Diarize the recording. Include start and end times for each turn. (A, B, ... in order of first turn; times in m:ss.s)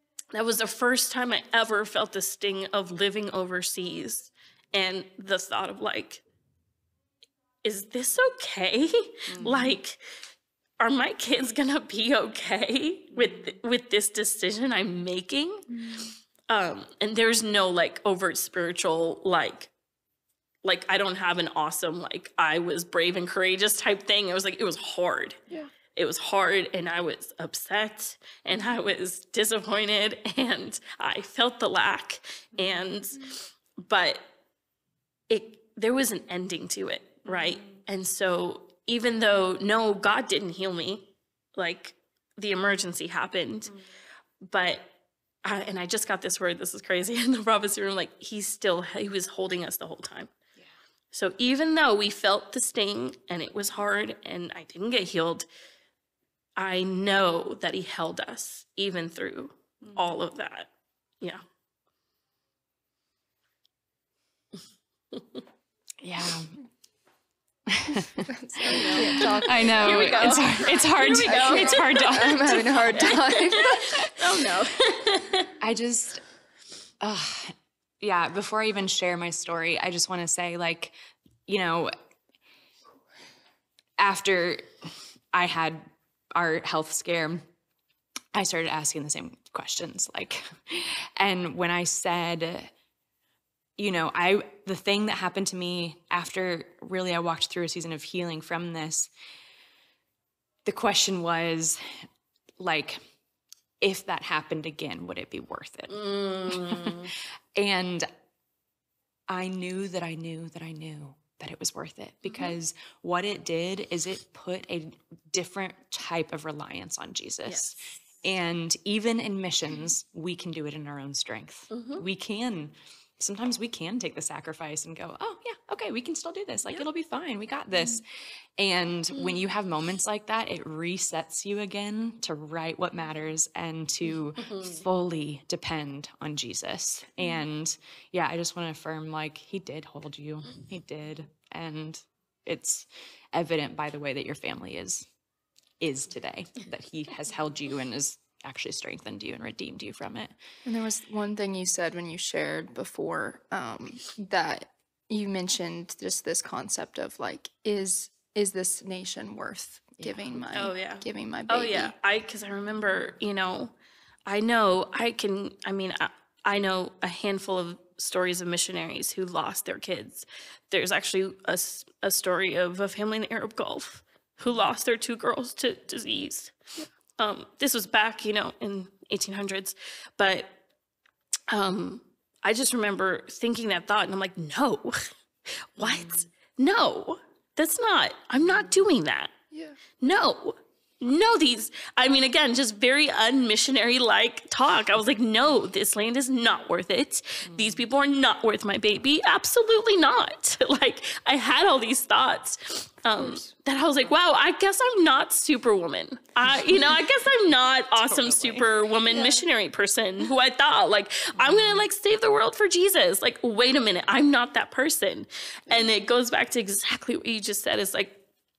0:00.3-0:06.2 A
0:07.6-0:10.0 A
0:09.3-0:09.7 B
0:10.8-0:15.7 A
0:16.5-0:19.7 A
0:20.6-0:25.4 A
0:25.9-0:34.2 A
0:35.3-0:43.7 A
0:44.4-0:44.9 A
0:45.4-0:50.3 A
0:51.1-0:55.5 A
0:56.6-1:00.7 A
1:06.0-1:06.5 B
1:07.7-1:13.1 B
1:08.3-1:10.4 C
1:08.6-1:15.5 A
1:11.0-1:13.9 C
1:15.6-1:16.2 B
1:17.0-1:20.9 B
1:21.5-1:21.9 B
1:24.0-1:25.8 B
1:26.4-1:27.4 B
1:28.3-1:32.7 B
1:33.8-1:39.1 B
1:40.6-1:41.8 B
1:42.6-1:43.0 B
1:43.8-1:47.0 B
1:45.9-1:47.1 A
1:47.6-1:48.0 B
1:49.3-2:08.0 B
1:52.2-1:52.5 A
1:57.4-1:57.8 A
2:01.7-2:02.0 A
2:08.6-2:25.0 B
2:14.5-2:14.8 A
2:25.8-2:30.3 B
2:30.6-2:41.9 C
2:40.0-2:40.4 B
2:40.5-2:43.7 A
2:44.3-2:56.5 A
2:57.2-3:00.6 A
3:01.5-3:05.1 A
3:05.7-3:09.3 A
3:05.8-3:06.1 B
3:10.0-3:38.2 A
3:23.2-3:23.5 C
3:27.9-3:28.7 B
3:31.4-3:31.8 B